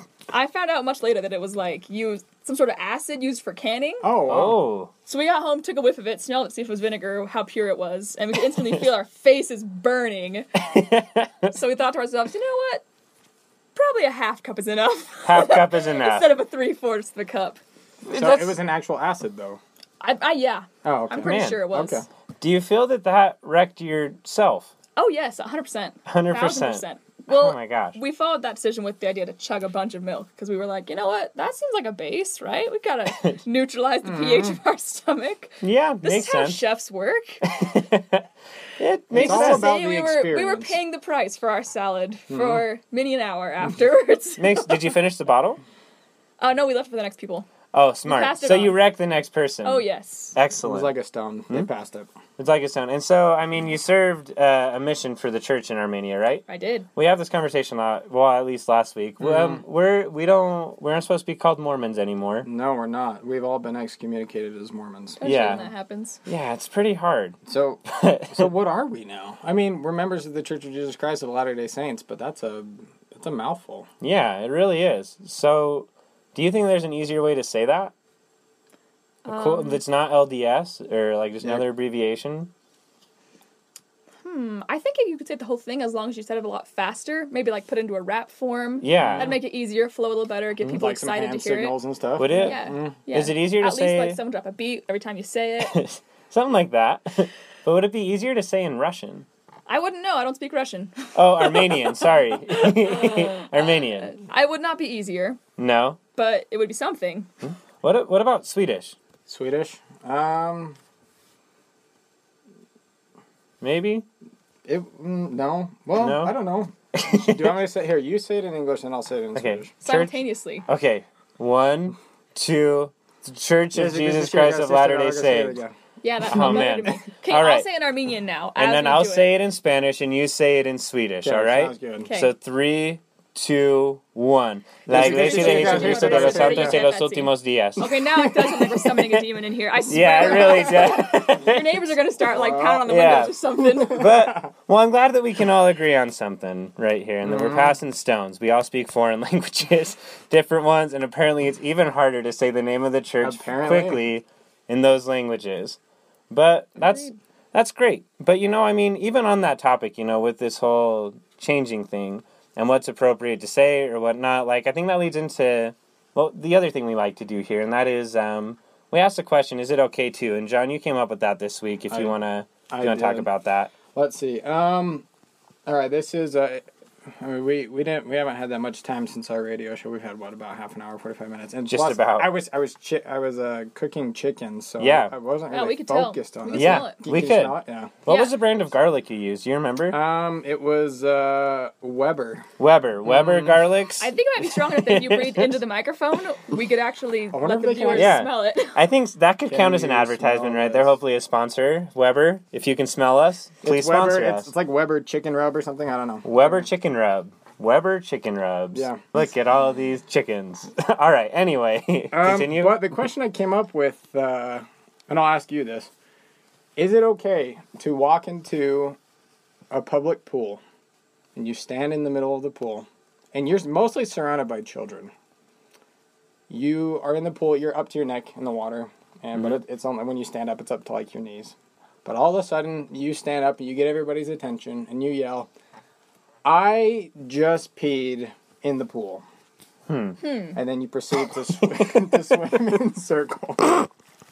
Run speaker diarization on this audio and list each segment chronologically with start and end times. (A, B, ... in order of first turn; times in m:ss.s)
0:00.3-0:04.1 A
0:04.0-0:04.6 B
0:04.3-0:04.9 C
0:05.1-0:10.5 A
0:10.6-0:11.5 C
0:11.5-0:12.8 A
0:13.8-0:18.6 A
0:15.2-0:16.3 C
0:18.1-0:19.6 B
0:20.0-0:22.0 A
0:20.8-0:22.1 B
0:21.2-0:21.7 C
0:22.4-0:24.7 C
0:25.0-0:37.4 A
0:26.1-0:28.0 C
0:34.0-0:34.6 B
0:35.6-0:36.6 C
0:37.5-0:38.2 C
0:38.8-0:39.7 C
0:39.1-0:40.8 B
0:39.2-0:44.9 A
0:42.3-0:42.6 B
0:44.4-0:45.6 C
0:46.4-0:47.5 A
0:47.7-0:50.9 C
0:48.0-0:48.8 A
0:49.6-0:50.4 A
0:50.6-0:52.1 B
0:52.4-0:56.4 C
0:56.5-0:56.9 A
0:57.0-1:02.5 C
0:59.2-0:59.6 B
1:02.4-1:05.6 B
1:05.2-1:06.2 A
1:05.2-1:05.7 C
1:06.3-1:08.5 C
1:07.5-1:13.9 B
1:14.0-1:17.9 C
1:19.2-1:19.8 A
1:19.3-1:22.5 C
1:24.2-1:31.8 A
1:28.8-1:29.4 C
1:29.0-1:29.4 B
1:30.7-1:33.0 B
1:32.2-1:34.2 C
1:32.3-1:35.8 A
1:35.6-1:39.3 C
1:39.7-1:45.4 A
1:41.2-1:44.2 C
1:45.6-1:46.0 C
1:46.2-1:47.3 A
1:47.4-1:49.0 C
1:49.3-1:50.8 B
1:53.6-1:54.0 C
1:54.6-1:59.7 B
1:56.0-1:56.4 C
1:57.0-1:57.6 C
1:59.4-2:05.6 C
1:59.8-2:00.6 A
2:03.7-2:05.8 B
2:06.0-2:09.4 A
2:06.3-2:07.7 C
2:06.3-2:06.7 B
2:08.6-2:17.9 C
2:11.2-2:12.1 B
2:12.1-2:12.3 A
2:14.9-2:16.9 B
2:15.0-2:24.1 A
2:19.9-2:21.9 C
2:22.3-2:22.9 B
2:22.9-2:35.8 C
2:23.8-2:24.5 B
2:27.2-2:27.8 B
2:33.2-2:34.0 B
2:36.3-2:53.7 C
2:36.8-2:37.1 A
2:51.9-2:52.2 B
2:52.7-2:53.3 B
2:53.9-2:55.1 B
2:55.7-3:08.0 B
3:01.7-3:02.3 C
3:04.8-3:05.1 C
3:05.5-3:07.0 A
3:06.5-3:10.0 C
3:08.1-3:08.4 A
3:09.9-3:12.5 B
3:12.6-3:15.6 C
3:13.1-3:13.6 B
3:14.0-3:18.8 A
3:17.3-3:18.2 B
3:17.9-3:24.5 C
3:19.5-3:20.9 B
3:23.6-3:26.7 B
3:26.2-3:32.9 C
3:28.7-3:29.1 B
3:32.1-3:35.9 B
3:36.8-3:39.0 B
3:39.7-3:40.6 B
3:41.4-3:45.1 B
3:46.5-3:55.5 B
3:56.4-3:59.2 B
3:59.9-4:00.2 C
4:00.2-4:00.6 A
4:00.6-4:03.9 B